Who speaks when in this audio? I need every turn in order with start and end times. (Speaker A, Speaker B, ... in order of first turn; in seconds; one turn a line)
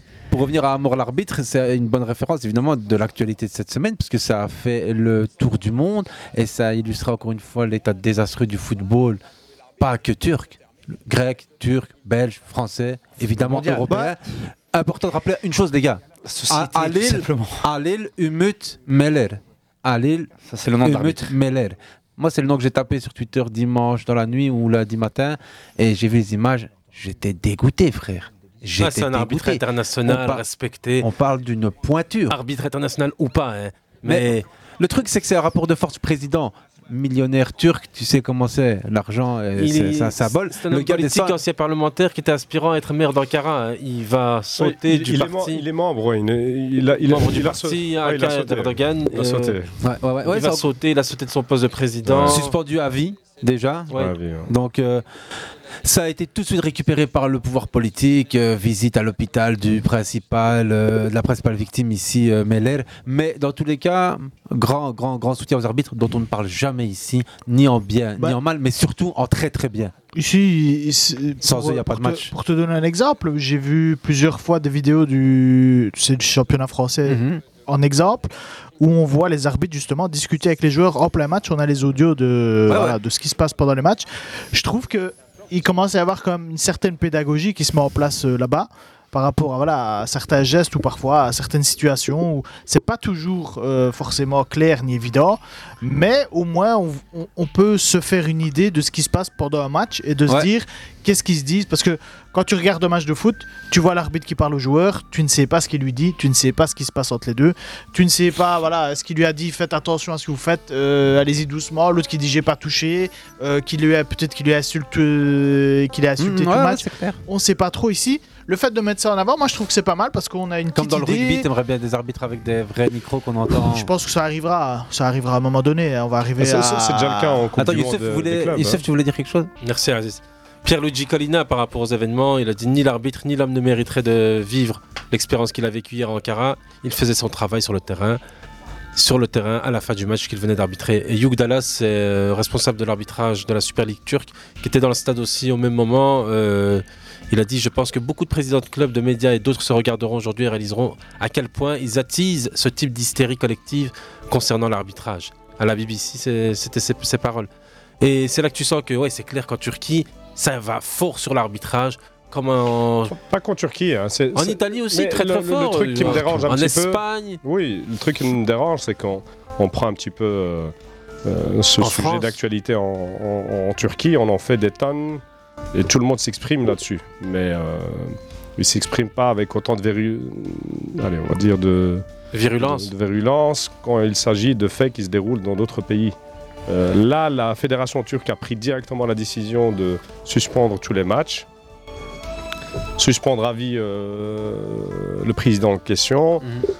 Speaker A: 0.3-9.2
Speaker A: 9.8-20.3
Speaker B: 13.4-14.2
Speaker B: 16.2-17.6
Speaker B: 20.5-21.4
Speaker A: 20.8-30.4
Speaker C: 28.8-31.1
Speaker A: 31.0-32.4
Speaker C: 32.3-34.4
Speaker A: 34.0-41.4
Speaker C: 39.5-45.6
Speaker D: 44.6-49.7
Speaker C: 47.0-49.6
Speaker A: 49.8-50.7
Speaker C: 50.2-52.5
Speaker D: 52.0-52.4
Speaker A: 52.2-55.0
Speaker D: 53.9-54.5
Speaker A: 55.8-69.9
Speaker E: 70.1-121.5
Speaker A: 71.4-72.3
Speaker A: 77.1-77.4
Speaker A: 82.7-83.0
Speaker A: 116.2-117.2
Speaker A: 120.8-123.9
Speaker E: 123.6-127.5
Speaker D: 126.4-128.8
Speaker A: 127.6-129.5
Speaker C: 129.6-138.2
Speaker C: 138.9-157.5
Speaker C: 158.0-163.2
Speaker D: 163.1-170.7
Speaker C: 164.3-167.4
Speaker D: 171.2-175.2
Speaker C: 171.8-172.4
Speaker D: 175.7-182.1
Speaker C: 182.3-182.9
Speaker D: 182.6-186.2
Speaker D: 186.7-191.4
Speaker D: 193.0-196.5